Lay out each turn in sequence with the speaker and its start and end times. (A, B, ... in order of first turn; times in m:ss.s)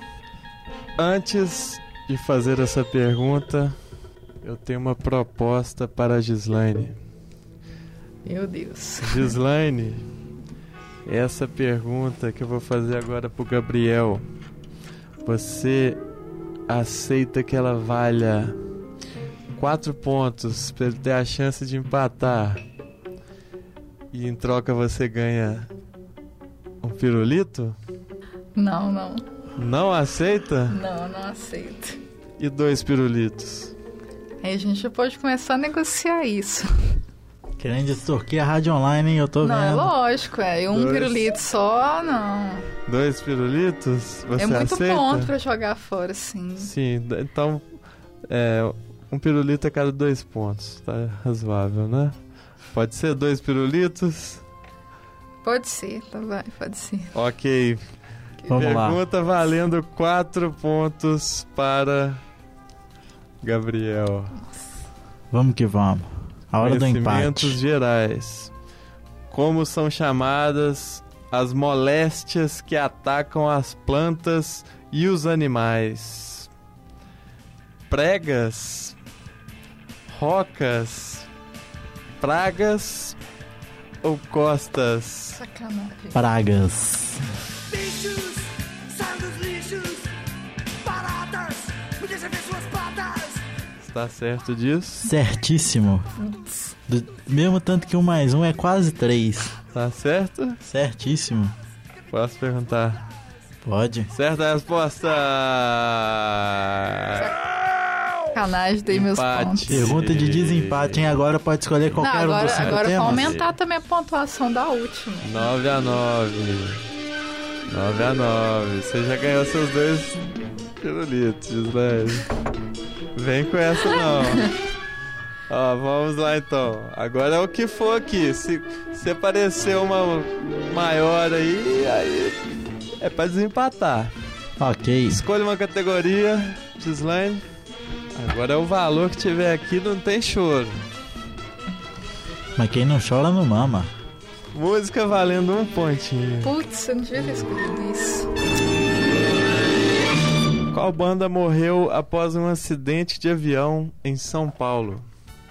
0:01.0-0:03.8 A
0:04.4-0:07.0 A
0:08.2-0:09.4 B
0:09.0-0:10.0 A
0:11.0-0:14.2 A
0:15.2-0:16.0 A
0:16.7-0:18.6 A
0:19.5-0:22.6 A
0:24.1-0:25.7 A
0:26.8-0:27.8 A
0:28.5-0:29.2 B
0:29.6-0:30.8 A
0:30.7-0:32.0 B
0:32.4-0:33.7 A
0:34.4-0:37.0 B
0:37.6-0:39.9 C
0:39.4-0:42.7 B
0:40.7-0:41.2 A
0:42.8-0:45.3 A
0:44.4-0:46.7 B
0:46.6-0:47.6 A
0:48.3-0:52.2 A
0:52.7-0:54.4 A
0:55.4-0:57.1 B
0:57.1-0:57.8 A
0:58.5-0:59.0 C
0:58.5-1:02.2 A
1:03.4-1:04.4 A
1:04.4-1:04.7 B
1:05.3-1:07.6 C
1:06.6-1:08.5 A
1:09.3-1:16.5 A
1:17.9-1:19.0 A
1:20.1-1:21.3 A
1:22.2-1:23.2 A
1:24.0-1:25.4 A
1:25.3-1:26.2 B
1:26.1-1:27.2 C
1:27.7-1:30.1 D
1:30.8-1:33.4 D
1:33.8-1:35.1 A
1:35.0-1:36.1 C
1:36.2-1:36.7 B
1:36.9-1:39.5 C
1:39.7-1:40.6 A
1:40.6-1:41.5 C
1:42.1-1:43.0 A
1:43.6-1:44.1 C
1:44.1-1:47.3 A
1:48.3-1:49.9 B
1:48.9-1:51.1 A
1:49.7-1:53.4 C
1:51.9-1:53.5 A
1:52.0-1:55.5 B
1:55.2-1:56.8 A
1:57.7-2:00.2 A
2:00.8-2:02.3 A
2:03.1-2:04.5 A
2:03.9-2:04.5 B
2:05.5-2:12.5 A
2:13.0-2:14.1 A
2:14.6-2:15.2 C
2:15.1-2:17.4 A
2:18.1-2:20.8 A
2:22.6-2:23.9 C
2:24.5-2:26.5 A
2:26.4-2:28.3 B
2:30.7-2:35.0 A